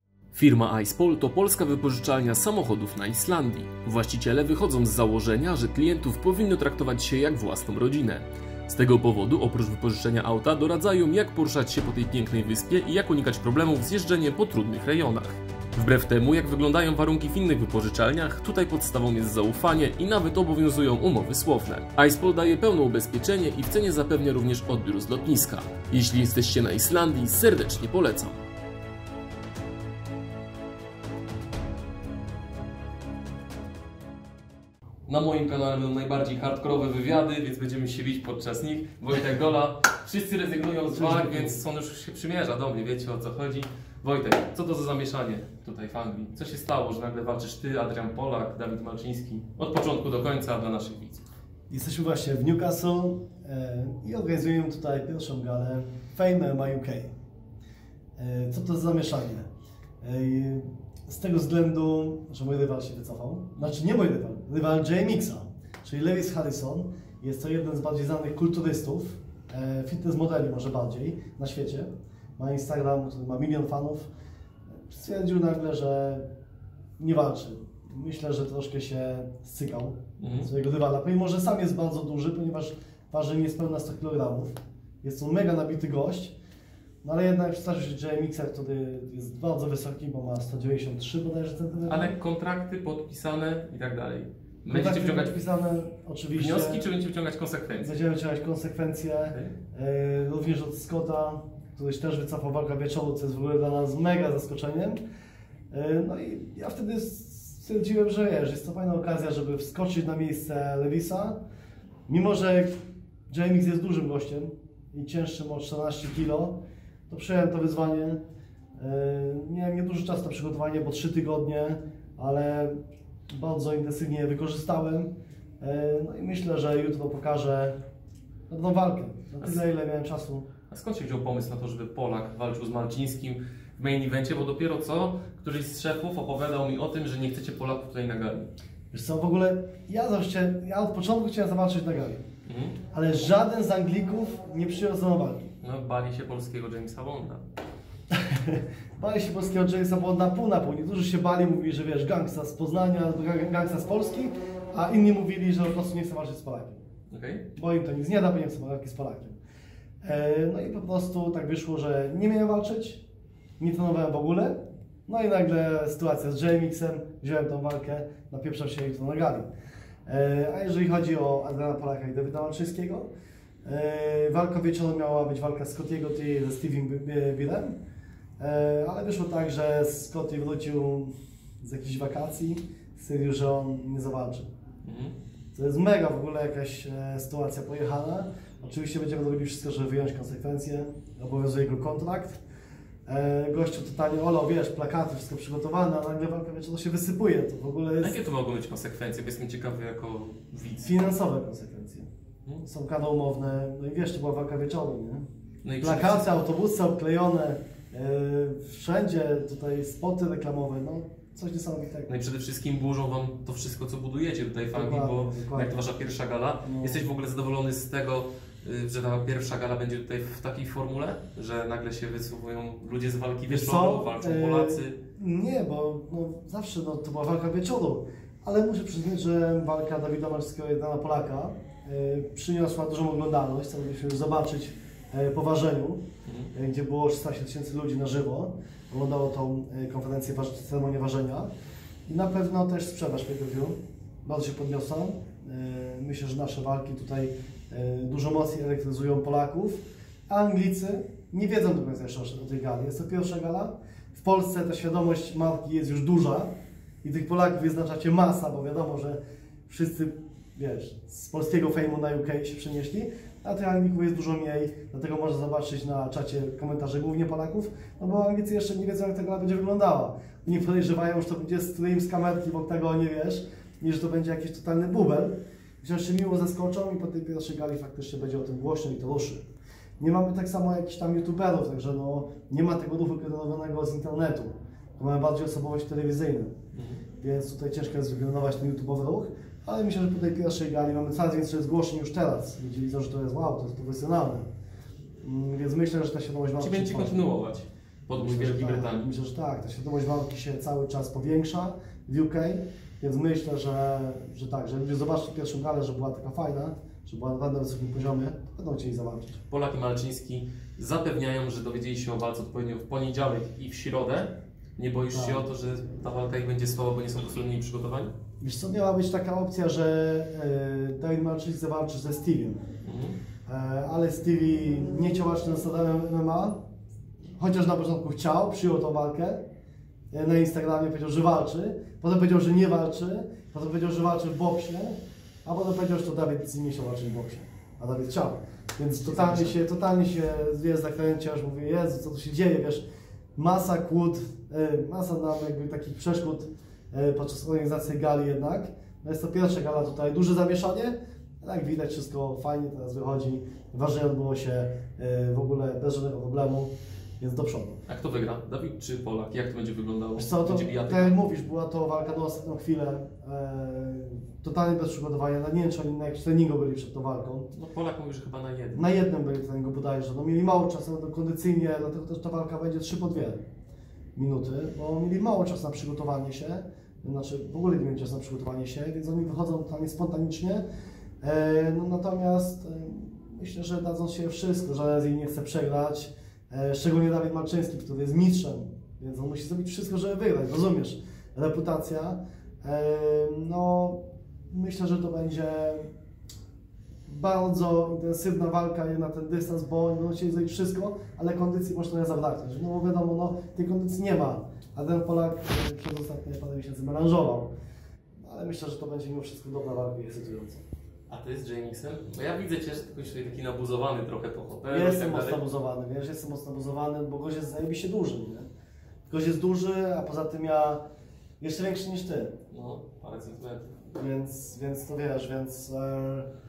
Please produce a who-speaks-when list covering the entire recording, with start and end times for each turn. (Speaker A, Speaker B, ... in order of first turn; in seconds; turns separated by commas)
Speaker A: 0.3-28.4, Speaker A: 35.1-51.2, Speaker B: 40.9-41.6, Speaker B: 51.7-57.1, Speaker B: 58.2-59.5, Speaker B: 60.0-74.1, Speaker B: 74.9-76.2, Speaker B: 77.0-86.3, Speaker A: 80.2-80.5, Speaker B: 87.0-92.2, Speaker A: 91.9-95.3, Speaker B: 94.7-96.8, Speaker A: 96.3-98.0, Speaker B: 97.8-105.0, Speaker B: 105.7-111.4, Speaker B: 112.1-112.8, Speaker B: 113.3-118.2, Speaker B: 118.8-122.8, Speaker B: 123.3-127.8, Speaker B: 128.5-130.5, Speaker A: 130.7-138.5, Speaker B: 138.9-142.2, Speaker A: 142.5-142.8, Speaker B: 142.9-145.6, Speaker A: 145.6-147.4, Speaker B: 148.1-156.8, Speaker A: 157.1-157.5, Speaker B: 157.6-159.4, Speaker B: 160.0-163.0, Speaker B: 163.6-169.5, Speaker B: 170.1-173.1, Speaker B: 173.6-177.8, Speaker B: 178.4-184.5, Speaker A: 184.8-185.2, Speaker B: 185.5-192.4, Speaker B: 193.1-198.2, Speaker A: 198.0-201.0, Speaker B: 200.8-202.1, Speaker B: 202.6-205.2, Speaker A: 205.6-206.4, Speaker B: 205.8-212.1, Speaker A: 212.1-225.0, Speaker B: 214.7-215.8, Speaker B: 216.6-217.1, Speaker B: 223.5-236.0, Speaker A: 236.2-236.5, Speaker B: 236.5-241.5, Speaker B: 242.1-256.5, Speaker B: 257.0-279.5, Speaker B: 280.0-286.5, Speaker A: 286.7-287.0, Speaker B: 287.2-294.5, Speaker B: 295.2-297.3, Speaker A: 296.6-299.1, Speaker B: 298.2-309.4, Speaker A: 309.5-318.1, Speaker B: 315.1-315.5, Speaker B: 318.4-322.6, Speaker A: 322.8-323.2, Speaker B: 323.5-326.6, Speaker B: 327.4-329.4, Speaker B: 330.1-342.8, Speaker A: 339.0-339.6, Speaker B: 343.4-357.8, Speaker A: 357.9-361.2, Speaker B: 360.2-367.5, Speaker A: 367.5-368.9, Speaker B: 368.7-373.4, Speaker B: 374.2-380.6, Speaker B: 381.2-395.9, Speaker B: 397.1-407.5, Speaker B: 408.2-410.6, Speaker A: 411.1-415.4, Speaker B: 414.7-418.5, Speaker B: 419.1-420.8, Speaker B: 421.4-422.4, Speaker A: 422.5-423.8, Speaker B: 423.9-426.3